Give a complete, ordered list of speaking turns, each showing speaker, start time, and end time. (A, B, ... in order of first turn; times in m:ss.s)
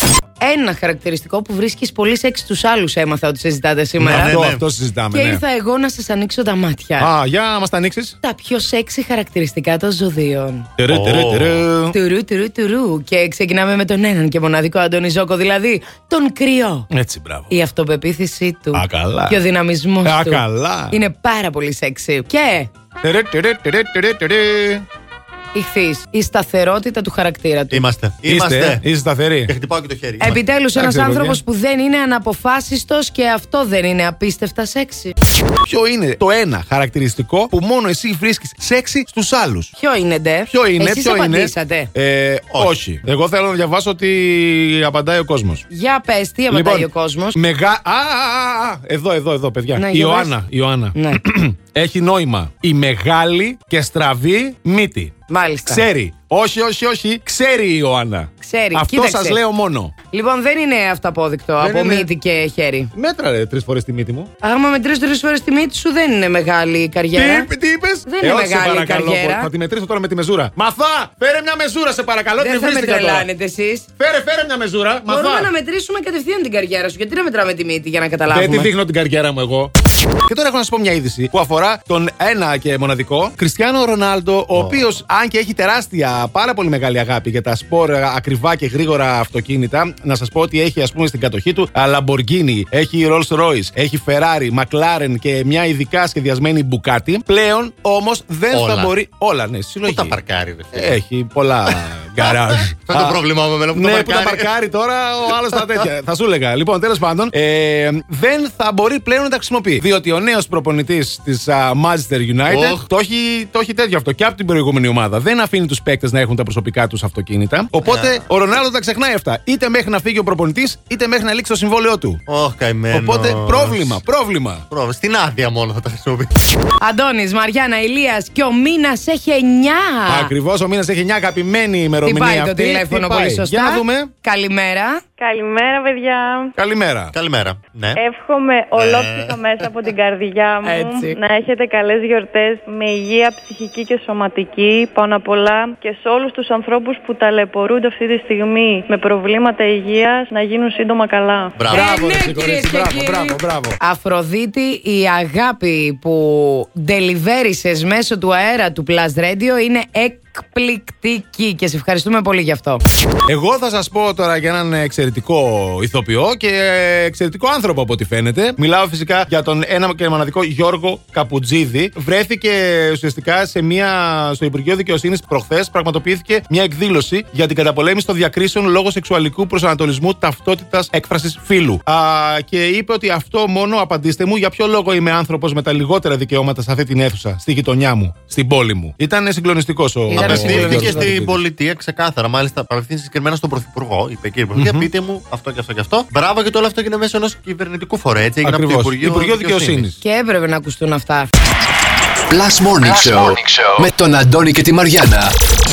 0:00.4-0:04.4 A
0:04.0-0:05.4 B
0:04.0-0:04.6 C
0:05.1-0:07.1 A
0:07.0-0:08.2 B
0:08.2-0:10.7 A
0:10.8-0:12.0 B
0:10.9-0:11.6 C
0:11.9-0:16.9 A
0:16.9-0:17.5 B
0:17.5-0:22.7 A
0:18.7-0:19.4 B
0:20.0-0:21.0 B
0:23.0-0:24.8 B
0:25.5-0:27.8 A
0:27.7-0:28.8 C
0:28.3-0:29.5 B
0:29.5-0:30.4 C
0:30.2-0:35.1 A
0:30.7-0:31.4 B
0:35.6-0:39.7 B
0:39.8-0:41.9 A
0:40.5-0:45.6 B
0:45.7-0:47.4 A
0:46.5-0:55.1 B
0:49.7-0:50.4 A
0:50.9-0:51.2 A
0:55.3-0:55.8 A
0:55.6-0:59.9 B
0:58.4-0:59.4 A
1:00.1-1:02.9 A
1:01.6-1:02.1 B
1:02.9-1:04.3 B
1:04.4-1:07.5 A
1:07.1-1:13.3 B
1:08.0-1:09.5 A
1:12.4-1:13.9 A
1:14.0-1:15.5 B
1:15.1-1:18.7 A
1:18.3-1:19.7 B
1:20.2-1:40.2 B
1:24.5-1:24.9 C
1:38.5-1:38.9 C
1:39.8-1:41.0 C
1:40.7-1:43.2 B
1:42.8-1:44.5 C
1:43.7-2:02.2 B
1:52.5-1:52.8 C
1:57.8-1:58.2 C
2:02.3-2:04.0 C
2:02.9-2:04.6 B
2:04.7-2:06.3 C
2:06.8-2:10.3 A
2:10.1-2:14.1 B
2:12.0-2:15.0 A
2:15.2-2:16.5 D
2:16.6-2:17.1 B
2:17.1-2:18.0 C
2:17.9-2:31.6 D
2:18.7-2:19.7 C
2:20.6-2:21.2 A
2:31.6-2:32.0 C
2:31.7-2:33.8 B
2:31.7-2:42.8 A
2:43.3-3:11.4 B
3:10.1-3:11.1 A
3:10.2-3:19.9 C
3:14.5-3:14.9 B
3:18.4-3:20.0 B
3:20.0-3:21.3 A
3:22.3-3:25.3 E